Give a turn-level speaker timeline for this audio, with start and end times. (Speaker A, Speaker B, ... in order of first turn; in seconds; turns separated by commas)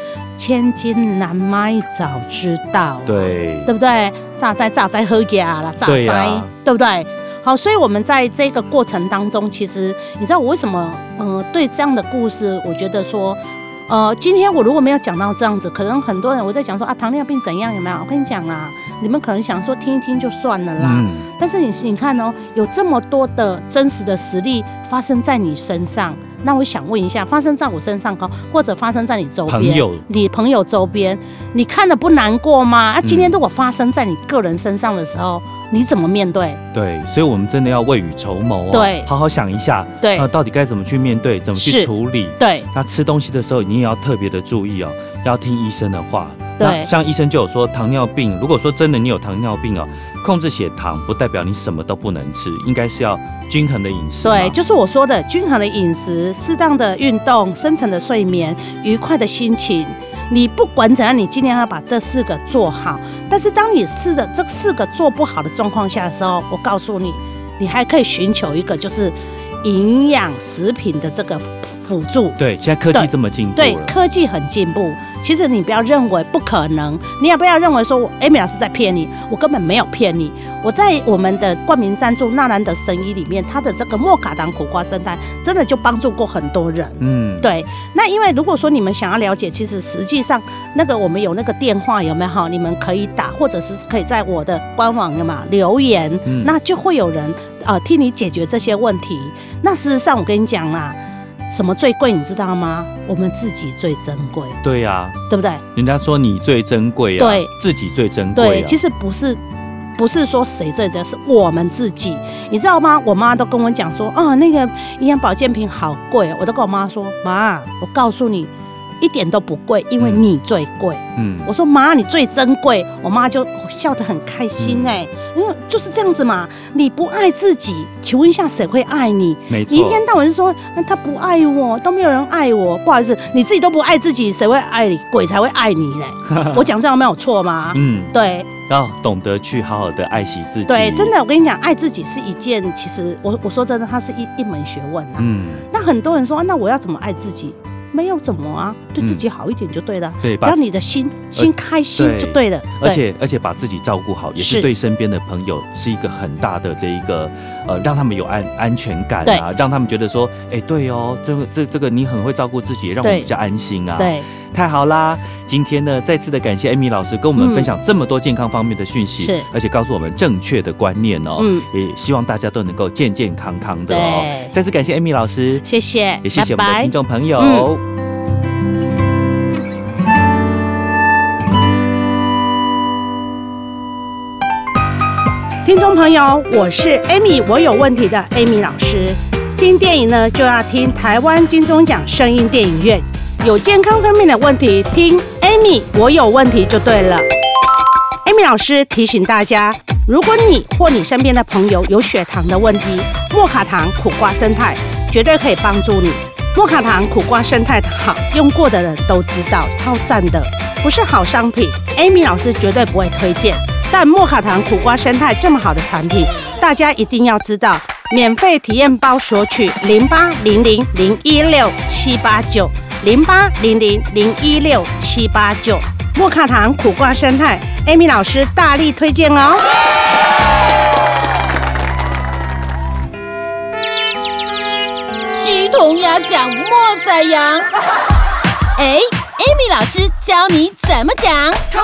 Speaker A: 0.3-36.6, Speaker B: 3.0-3.7, Speaker B: 5.8-6.5, Speaker B: 20.8-21.3, Speaker B: 29.5-30.0, Speaker B: 33.0-33.4, Speaker B: 36.7-54.6, Speaker A: 38.7-39.1, Speaker A: 40.0-40.3, Speaker A: 41.5-42.7, Speaker A: 46.6-46.9, Speaker A: 54.2-72.4, Speaker B: 72.4-73.9, Speaker A: 72.9-101.0, Speaker B: 87.0-87.5, Speaker B: 96.2-96.5, Speaker A: 101.5-104.6, Speaker B: 104.6-105.2, Speaker A: 105.3-105.6, Speaker B: 105.7-108.8, Speaker A: 107.2-107.5, Speaker A: 108.3-109.4, Speaker A: 110.0-138.5, Speaker B: 120.0-120.2, Speaker B: 121.2-121.5, Speaker B: 124.6-125.0, Speaker B: 129.5-130.0, Speaker B: 136.3-136.7, Speaker B: 137.7-138.1, Speaker B: 138.7-141.1, Speaker A: 140.7-153.0, Speaker B: 145.2-145.7, Speaker B: 149.0-149.2, Speaker B: 150.2-150.6, Speaker B: 151.3-175.6, Speaker A: 154.4-154.7, Speaker A: 163.0-163.3, Speaker A: 164.0-164.3, Speaker A: 167.4-167.7, Speaker A: 169.2-169.5, Speaker A: 171.4-171.7, Speaker A: 173.9-174.5, Speaker A: 175.6-177.7, Speaker B: 176.2-177.8, Speaker A: 185.6-197.2, Speaker A: 198.2-229.7, Speaker C: 235.4-237.7, Speaker C: 238.8-241.6